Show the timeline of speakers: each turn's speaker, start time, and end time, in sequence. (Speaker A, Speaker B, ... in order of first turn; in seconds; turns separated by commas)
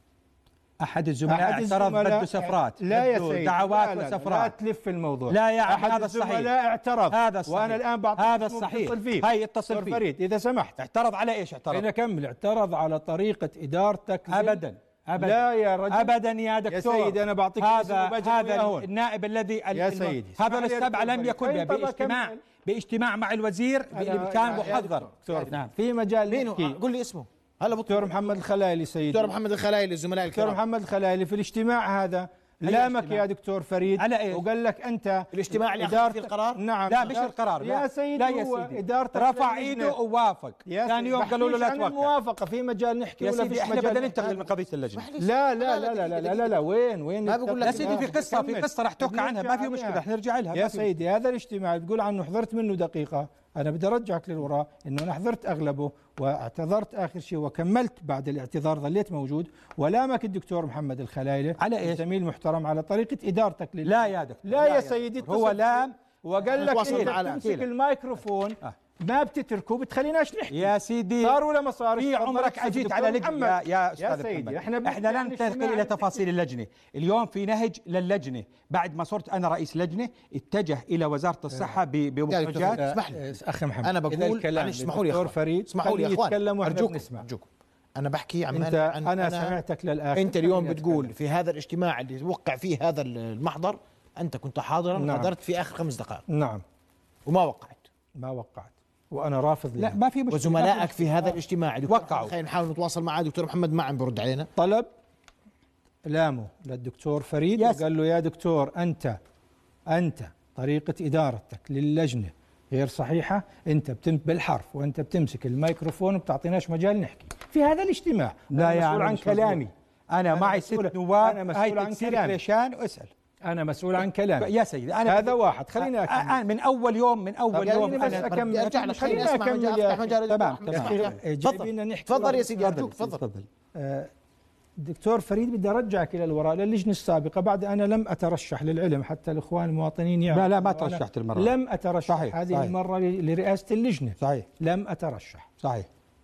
Speaker A: 0.8-4.5, Speaker B: 1.2-10.8, Speaker A: 5.3-6.5, Speaker A: 7.1-10.0, Speaker A: 10.8-11.8, Speaker B: 11.7-14.6, Speaker A: 14.3-25.7, Speaker B: 15.2-16.1, Speaker B: 16.7-18.9, Speaker B: 19.7-22.4, Speaker B: 23.9-26.8, Speaker C: 24.4-25.5, Speaker C: 26.3-28.1, Speaker B: 27.9-29.3, Speaker C: 29.1-30.6, Speaker B: 30.3-39.9, Speaker A: 32.6-33.2, Speaker A: 34.0-34.4, Speaker C: 35.3-36.6, Speaker A: 36.9-42.1, Speaker B: 40.6-44.4, Speaker A: 43.2-45.0, Speaker C: 44.9-46.6, Speaker B: 45.2-50.0, Speaker C: 47.2-48.1, Speaker A: 47.6-50.9, Speaker B: 50.5-76.2, Speaker A: 61.6-62.0, Speaker A: 63.8-65.9, Speaker A: 66.5-67.7, Speaker C: 66.5-67.5, Speaker A: 70.5-71.4, Speaker A: 71.9-82.8, Speaker C: 82.3-83.2, Speaker B: 82.7-87.2, Speaker C: 83.8-89.6, Speaker B: 88.5-91.1, Speaker C: 90.1-96.2, Speaker B: 95.0-95.3, Speaker B: 96.3-96.6, Speaker C: 97.2-97.8, Speaker B: 98.1-100.0, Speaker A: 99.8-101.1, Speaker C: 100.3-104.5, Speaker A: 101.9-102.3, Speaker B: 104.5-104.9, Speaker B: 106.0-109.2, Speaker A: 107.6-107.8, Speaker B: 109.9-119.7, Speaker A: 118.5-123.1, Speaker B: 120.3-122.4, Speaker B: 123.4-124.5, Speaker A: 124.4-129.3, Speaker B: 125.0-126.4, Speaker B: 127.5-130.1, Speaker C: 127.6-133.2, Speaker A: 130.3-131.2, Speaker B: 130.7-132.5, Speaker A: 132.5-133.5, Speaker B: 133.7-134.1, Speaker B: 134.8-145.5, Speaker A: 140.3-141.5, Speaker A: 142.1-142.7, Speaker A: 144.2-144.5, Speaker A: 145.6-145.9